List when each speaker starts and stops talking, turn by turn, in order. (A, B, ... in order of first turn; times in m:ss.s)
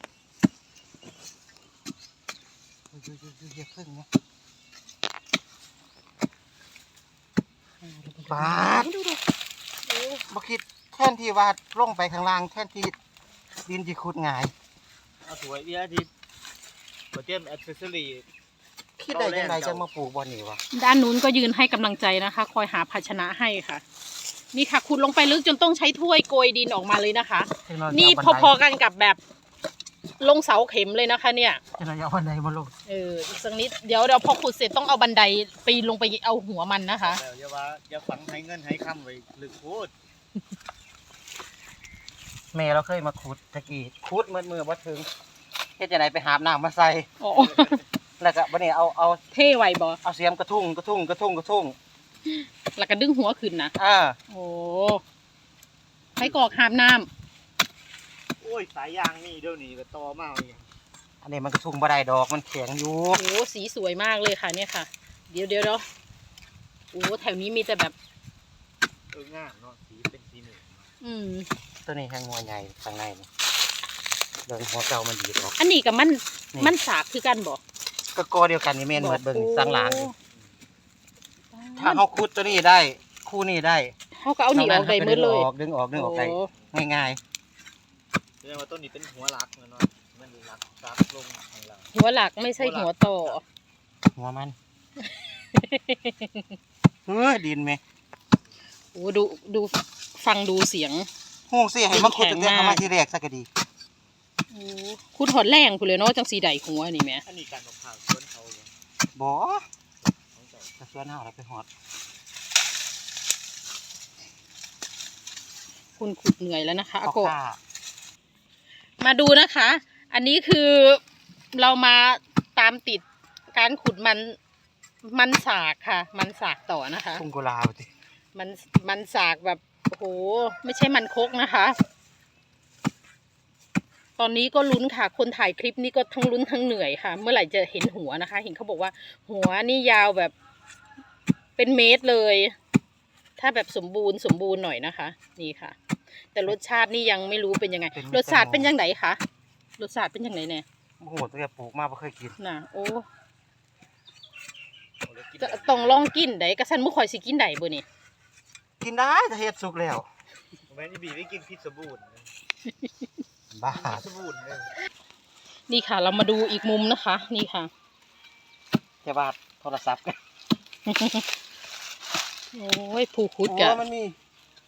0:02.9-0:04.1 A
0:07.8-0:09.2 B
0:08.3-0:08.9 A
0:09.9-0:10.2 B
0:10.3-0:13.0 A
0:13.7-0:14.5 A
0:15.2-0:16.1 C
0:17.1-0:18.2 C
0:19.0-0:20.6 A
0:19.1-0:19.9 C
0:20.7-0:23.8 B
0:24.5-0:29.2 B
0:27.7-0:28.6 A
0:30.2-0:31.6 B
0:31.8-0:32.7 A
0:32.9-0:37.2 B
0:37.0-0:39.9 C
0:42.5-0:45.1 A
0:45.8-0:47.1 A
0:47.2-0:47.8 B
0:48.2-0:49.2 A
0:49.3-0:50.0 B
0:50.0-0:51.8 A
0:52.3-0:53.7 B
0:53.8-0:54.2 A
0:54.3-0:55.0 B
0:56.2-0:57.1 B
0:58.4-1:00.6 C
1:01.2-1:03.2 A
1:03.1-1:05.8 B
1:06.9-1:07.9 B
1:09.1-1:10.9 C
1:11.0-1:11.5 B
1:11.9-1:13.3 A
1:14.5-1:15.6 A
1:15.6-1:17.6 B
1:18.2-1:20.1 A
1:19.0-1:20.1 B
1:21.5-1:22.0 B
1:21.8-1:23.9 A
1:24.2-1:26.5 B
1:24.5-1:27.2 A
1:28.4-1:31.9 C
1:31.9-1:33.4 B
1:32.6-1:33.4 C
1:34.2-1:34.6 A
1:35.5-1:36.5 B
1:37.1-1:37.8 A
1:39.0-1:41.1 B
1:41.5-1:43.5 A
1:41.9-1:42.8 B
1:44.5-1:47.2 B
1:47.2-1:48.7 C
1:49.2-1:49.6 A
1:50.3-1:50.8 C
1:50.8-1:51.7 A
1:56.0-1:57.3 B
1:57.0-1:57.6 A
1:59.0-2:01.0 B
2:01.5-2:04.4 B
2:05.0-2:07.2 B
2:07.1-2:07.9 A
2:08.3-2:11.8 B
2:14.2-2:20.3 B
2:21.6-2:22.5 B
2:23.4-2:25.8 B
2:26.3-2:29.2 B
2:28.0-2:28.7 A
2:29.8-2:30.6 B
2:31.0-2:32.4 A
2:32.4-2:33.1 B
2:35.0-2:36.1 C
2:35.4-2:37.8 B
2:38.8-2:40.1 A
2:40.7-2:42.3 C
2:43.5-2:44.1 A
2:43.7-2:44.7 C
2:45.7-2:47.7 B
2:49.0-2:50.2 A
2:50.9-2:51.3 B
2:52.5-2:53.8 B
2:53.4-2:54.2 A